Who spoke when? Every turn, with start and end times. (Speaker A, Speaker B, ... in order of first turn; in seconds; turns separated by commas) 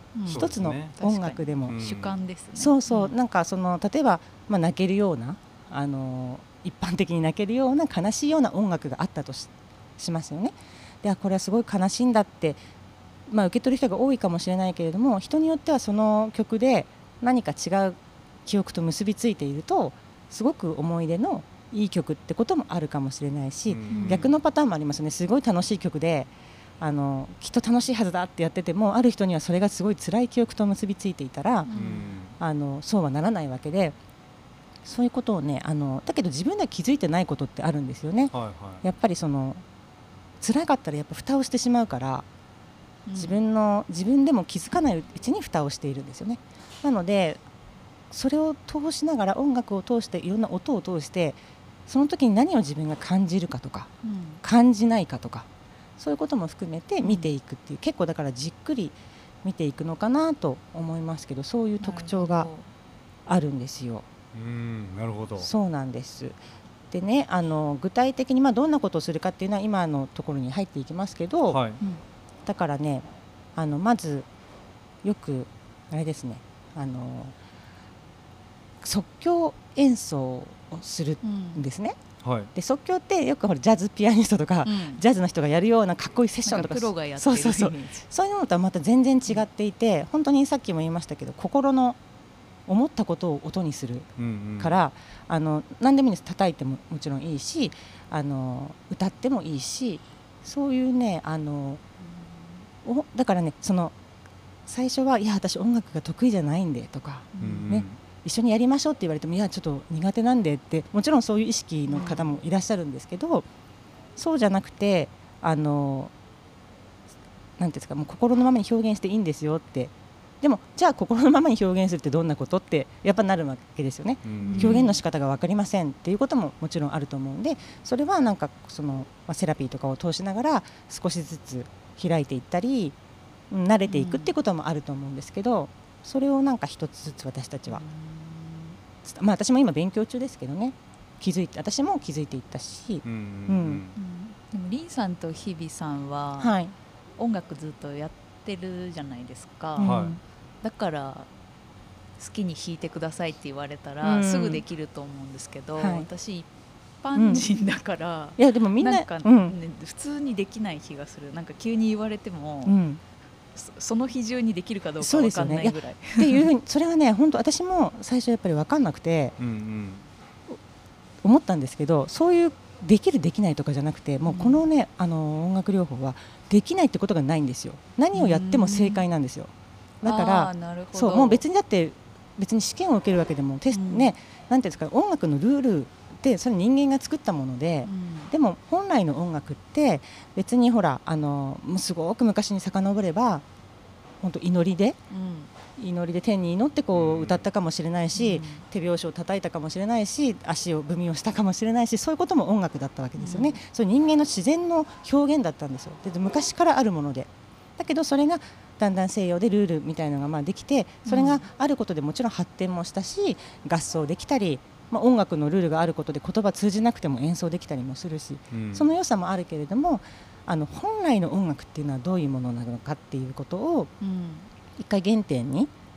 Speaker A: 0.1-3.1, Speaker B: 0.2-0.9, Speaker C: 0.3-1.8, Speaker B: 1.6-2.1, Speaker C: 2.6-12.6, Speaker C: 13.3-31.7, Speaker B: 23.7-24.3, Speaker A: 23.9-24.3, Speaker A: 31.6-32.1, Speaker B: 31.7-32.4, Speaker C: 32.4-34.0, Speaker C: 34.8-39.6, Speaker B: 38.3-38.8, Speaker C: 40.4-42.2, Speaker A: 43.0-43.4, Speaker C: 43.1-47.4, Speaker C: 48.1-53.9, Speaker A: 54.0-54.4, Speaker C: 54.4-55.5, Speaker C: 56.0-62.5, Speaker A: 57.0-57.3, Speaker A: 61.8-62.7, Speaker C: 63.3-64.0, Speaker B: 64.3-65.5, Speaker C: 65.4-66.4, Speaker C: 66.9-71.6, Speaker B: 71.5-71.8, Speaker C: 72.5-74.2, Speaker C: 75.0-77.3, Speaker C: 78.8-82.0, Speaker A: 81.2-81.6, Speaker B: 82.2-82.5, Speaker C: 82.5-92.0, Speaker A: 84.6-85.0, Speaker A: 86.5-88.0, Speaker C: 92.7-101.8, Speaker B: 94.2-94.8, Speaker C: 102.8-103.9, Speaker C: 104.7-113.5, Speaker A: 107.3-107.7, Speaker B: 107.4-108.0, Speaker A: 111.9-112.3, Speaker C: 114.2-116.1, Speaker C: 117.6-132.9, Speaker B: 124.2-124.8, Speaker A: 124.4-125.0, Speaker C: 133.5-137.8, Speaker A: 133.9-134.3, Speaker A: 137.7-138.7, Speaker C: 139.0-143.8, Speaker B: 143.0-143.9, Speaker A: 143.9-146.5, Speaker C: 146.4-146.7, Speaker A: 147.2-150.0, Speaker C: 149.8-150.2, Speaker B: 149.8-150.2, Speaker A: 150.6-151.3, Speaker A: 152.2-156.5, Speaker C: 154.0-154.6, Speaker C: 155.8-156.1, Speaker A: 157.0-162.7, Speaker C: 157.1-157.4, Speaker C: 158.4-159.6, Speaker C: 162.6-163.0, Speaker A: 163.5-166.4, Speaker C: 165.0-169.3, Speaker B: 169.4-170.0, Speaker C: 171.2-179.5, Speaker A: 174.2-174.6, Speaker A: 178.1-179.0, Speaker C: 180.0-193.4, Speaker A: 180.0-181.4, Speaker A: 183.7-184.1, Speaker A: 187.8-188.3, Speaker C: 194.2-195.0, Speaker A: 195.1-195.5, Speaker C: 195.8-223.9, Speaker B: 196.9-197.4, Speaker A: 198.1-198.6, Speaker A: 203.2-203.6, Speaker A: 211.1-211.4, Speaker B: 218.5-218.8, Speaker A: 224.0-224.5, Speaker C: 224.8-225.7